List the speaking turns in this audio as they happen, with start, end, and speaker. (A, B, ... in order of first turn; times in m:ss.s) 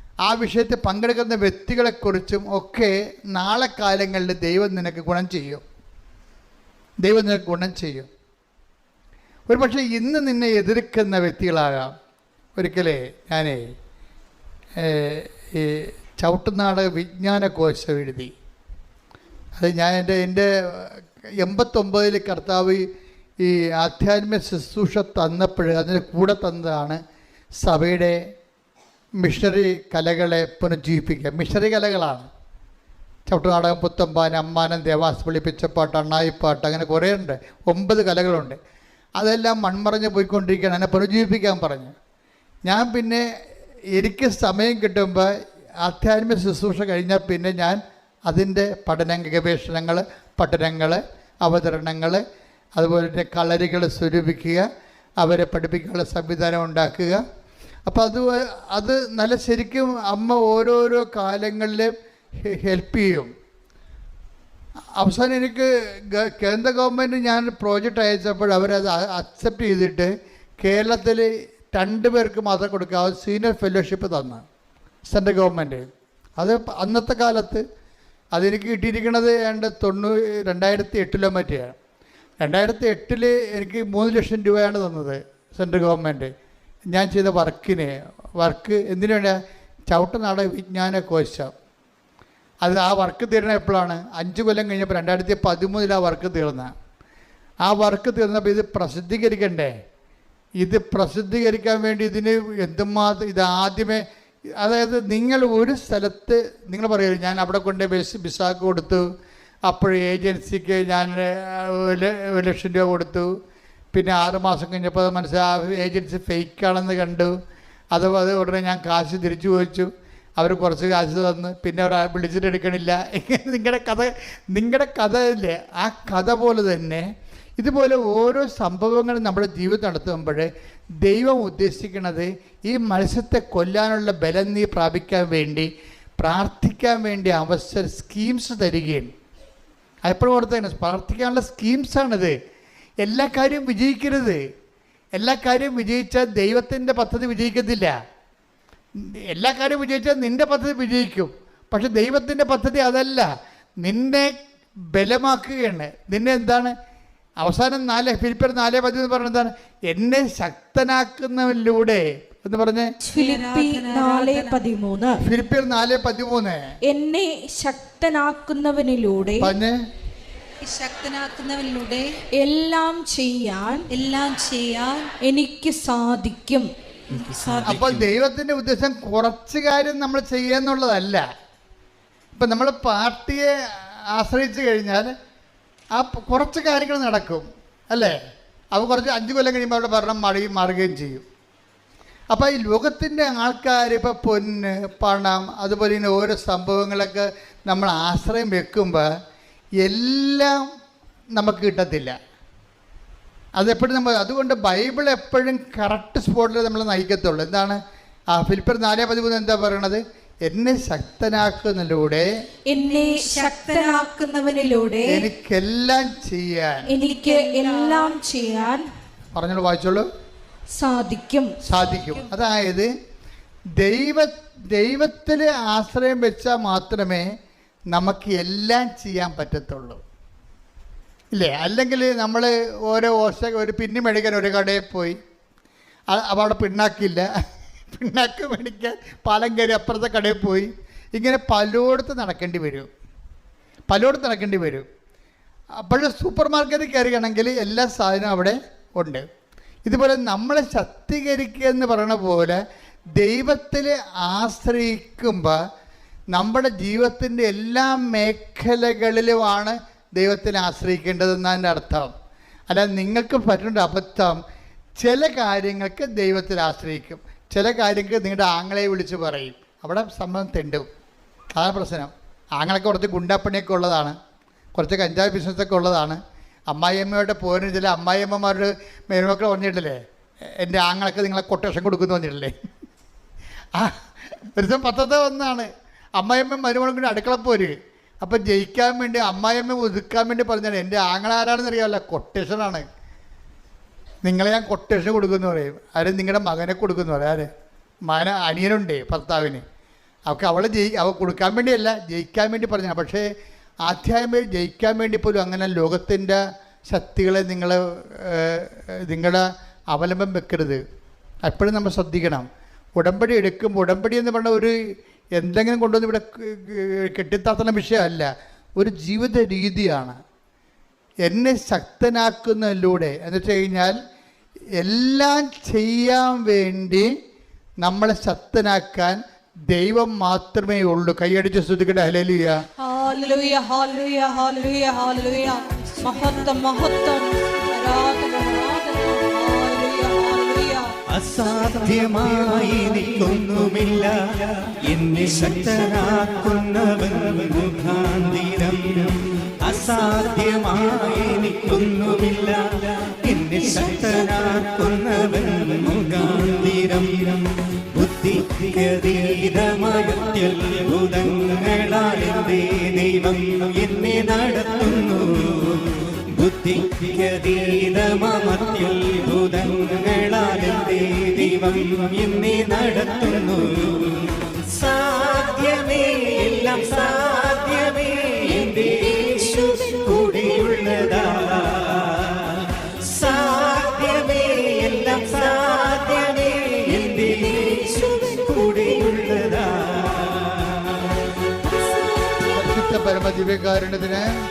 0:00.2-0:05.6 A
0:07.0-0:08.1 A
0:09.5-0:11.9 A
0:12.6-0:13.6 A
0:14.8-0:18.3 A
0:19.6-0:22.8 A
0:23.4-0:27.0 A
0:27.6-0:28.2 A
0:29.2-0:32.3 A
0:33.3-0:38.6 A
0:39.2-0:41.9 A
0:42.6-0:43.2 A
0:43.9-0:45.3 A
0:45.8-0:52.2 A
0:52.8-0:54.7 A
0:55.2-0:57.2 A
0:57.9-1:01.9 A
1:02.4-1:03.3 A
1:05.0-1:14.4 A
1:15.1-1:15.8 A
1:16.4-1:17.6 A
1:18.3-1:21.8 A
1:22.4-1:26.3 A
1:26.9-1:29.4 A
1:29.9-1:31.5 A
1:32.6-1:36.7 A
1:37.6-1:39.7 A
1:40.6-1:44.0 A
1:44.6-1:49.0 A
1:49.7-1:53.3 A
1:53.9-1:57.3 A
1:57.9-2:07.0 A
2:07.6-2:10.5 A
2:11.0-2:19.1 A
2:20.0-2:22.3 A
2:23.0-2:24.4 A
2:25.1-2:27.9 A
2:29.0-2:33.3 A
2:33.8-2:34.3 A
2:34.9-2:36.7 A
2:37.4-2:42.9 A
2:43.0-2:45.2 B
2:43.1-2:44.6 C
2:45.2-2:46.6 A
2:46.9-2:49.5 B
2:49.4-2:49.8 A
2:50.6-2:52.1 C
2:52.4-2:53.8 B
2:53.9-2:55.1 C
2:55.2-2:56.7 B
2:57.2-2:58.0 D
2:57.4-2:57.6 C
2:57.6-3:01.2 A
3:02.3-3:03.5 A
3:04.1-3:05.1 A
3:05.9-3:08.2 A
3:08.7-3:11.2 A
3:12.3-3:19.1 A
3:19.8-3:20.7 A
3:21.4-3:22.2 A
3:23.6-3:27.8 A
3:28.3-3:32.3 A
3:32.7-3:35.2 B
3:32.8-3:34.1 C
3:35.0-3:36.9 A
3:36.9-3:38.8 B
3:37.0-3:38.2 C
3:39.3-3:40.1 A
3:40.8-3:41.5 B
3:41.6-3:42.9 A
3:43.8-3:47.3 A
3:47.9-3:50.0 A
3:51.3-3:55.2 A
3:56.1-3:57.3 A
3:57.9-4:02.9 A
4:03.9-4:04.9 A
4:05.8-4:09.2 A
4:09.8-4:12.6 A
4:13.2-4:15.6 A
4:16.3-4:22.1 A
4:22.7-4:24.4 A
4:25.0-4:30.9 A
4:31.5-4:34.2 A
4:34.7-4:40.0 A
4:40.6-4:42.5 A
4:43.7-4:44.0 A
4:44.5-4:52.8 A
4:54.2-4:57.5 A
4:58.0-4:59.6 A
5:00.3-5:03.2 A
5:03.8-5:10.8 A
5:11.4-5:14.7 A
5:15.4-5:20.2 A
5:21.2-5:24.0 A
5:24.8-5:27.1 A
5:27.8-5:29.2 A
5:29.7-5:32.6 A
5:32.8-5:40.8 C
5:41.1-6:05.8 D
6:06.3-6:14.0 D
6:14.7-6:22.1 D
6:23.1-6:30.8 D
6:32.5-6:34.3 A